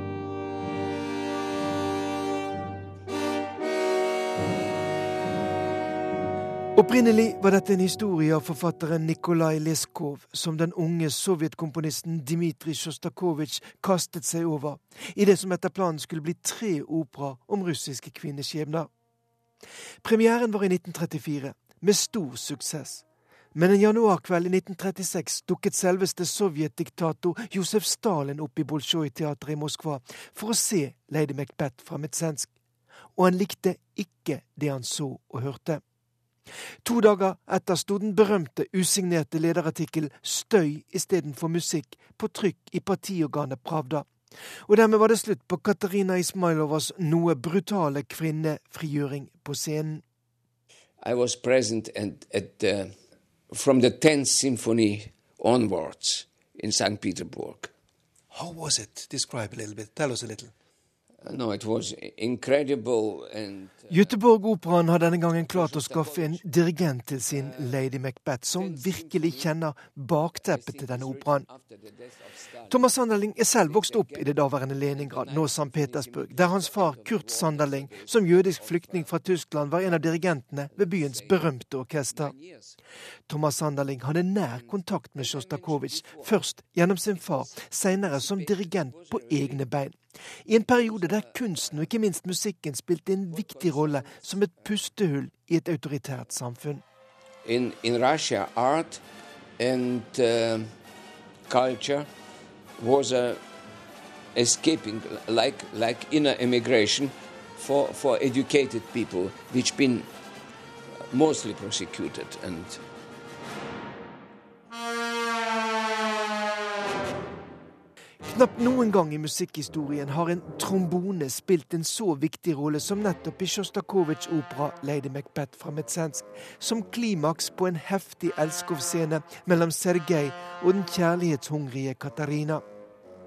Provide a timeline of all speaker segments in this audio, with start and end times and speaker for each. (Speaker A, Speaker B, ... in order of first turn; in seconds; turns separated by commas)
Speaker A: 6.7-18.9, Speaker A: 20.0-32.5, Speaker A: 33.1-35.8, Speaker A: 36.8-44.1, Speaker A: 44.6-50.0, Speaker B: 51.0-53.0, Speaker B: 53.5-57.7, Speaker B: 61.2-64.1, Speaker A: 63.9-71.5, Speaker B: 65.5-66.4, Speaker B: 67.3-67.8, Speaker B: 68.5-69.5, Speaker B: 70.5-73.0, Speaker A: 72.7-82.3, Speaker B: 73.6-79.1, Speaker B: 80.8-81.5, Speaker B: 82.1-82.8, Speaker A: 83.3-96.8, Speaker B: 84.5-86.5, Speaker B: 87.1-89.7, Speaker B: 90.9-91.8, Speaker B: 93.3-94.5, Speaker B: 97.4-99.0, Speaker B: 99.6-100.7, Speaker B: 101.5-102.1, Speaker B: 102.8-103.4, Speaker B: 104.3-110.1, Speaker B: 111.1-112.8, Speaker A: 118.2-132.6